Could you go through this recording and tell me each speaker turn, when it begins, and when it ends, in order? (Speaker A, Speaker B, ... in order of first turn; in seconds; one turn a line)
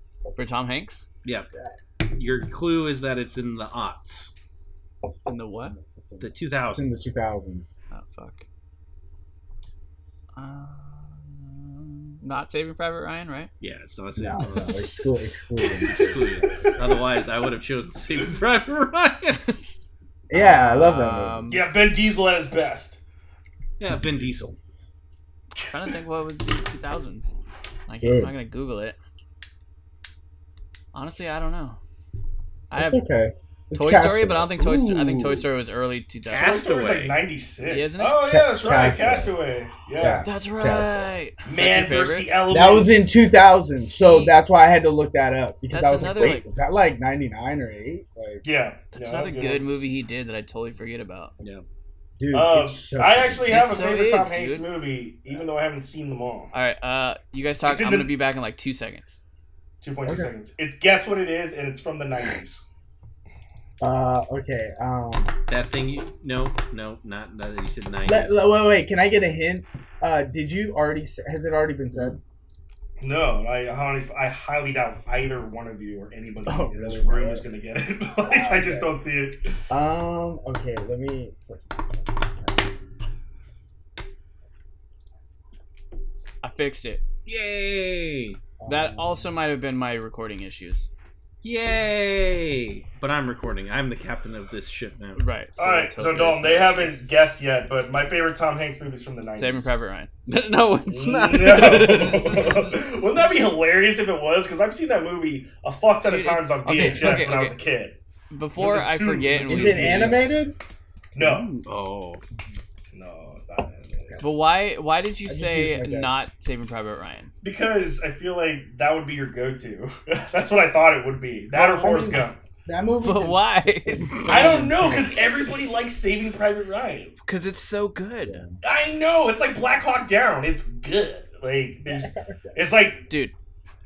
Speaker A: 0.3-1.1
Speaker B: 2.0-4.3
Speaker A: 5.2-5.8
Speaker C: 5.7-7.8
Speaker B: 6.2-6.9
Speaker A: 7.9-8.4
Speaker A: 10.3-13.5
Speaker B: 13.6-15.1
Speaker C: 14.2-16.7
Speaker A: 14.4-15.0
Speaker B: 15.8-19.7
Speaker C: 20.3-21.6
Speaker A: 20.3-21.6
Speaker D: 21.5-23.0
Speaker B: 23.8-24.6
Speaker D: 25.6-25.9
Speaker A: 25.7-27.3
Speaker A: 27.9-29.0
Speaker C: 28.0-28.3
Speaker A: 30.9-31.8
Speaker A: 32.7-33.0
Speaker C: 32.8-34.5
Speaker A: 33.7-36.6
Speaker B: 34.6-35.5
Speaker B: 36.3-37.2
Speaker D: 36.3-40.3
Speaker A: 37.6-38.4
Speaker C: 38.2-39.4
Speaker C: 40.0-41.1
Speaker A: 40.2-42.4
Speaker D: 41.4-43.1
Speaker C: 42.5-48.4
Speaker A: 43.8-44.4
Speaker A: 45.7-46.5
Speaker D: 48.4-49.6
Speaker A: 48.9-51.4
Speaker C: 52.2-53.7
Speaker D: 52.3-56.5
Speaker A: 53.5-54.7
Speaker A: 56.5-59.2
Speaker D: 57.6-58.1
Speaker D: 59.8-62.6
Speaker C: 60.1-60.3
Speaker C: 63.8-65.4
Speaker B: 65.5-68.4
Speaker C: 68.1-72.2
Speaker D: 73.0-79.6
Speaker C: 76.5-77.5
Speaker C: 78.2-78.9
Speaker C: 79.7-82.5
Speaker A: 86.4-87.0
Speaker B: 87.2-88.4
Speaker C: 88.6-89.3
Speaker A: 88.7-90.9
Speaker B: 91.4-95.2
Speaker A: 95.2-97.0
Speaker D: 95.6-99.7
Speaker A: 99.3-102.6
Speaker D: 100.9-108.0
Speaker B: 101.4-102.1
Speaker A: 106.0-107.6
Speaker C: 106.8-107.1
Speaker A: 108.3-110.4
Speaker D: 108.5-110.4
Speaker C: 109.5-110.5
Speaker D: 111.1-111.5
Speaker B: 111.2-112.2
Speaker D: 112.9-114.2
Speaker A: 114.2-117.3
Speaker C: 115.3-116.2
Speaker D: 117.4-122.4
Speaker C: 121.5-125.1
Speaker A: 123.0-125.2
Speaker B: 124.1-124.5
Speaker D: 124.2-127.1
Speaker A: 127.2-128.4
Speaker C: 128.2-128.6
Speaker D: 128.6-133.1
Speaker C: 131.8-132.6
Speaker A: 133.1-133.3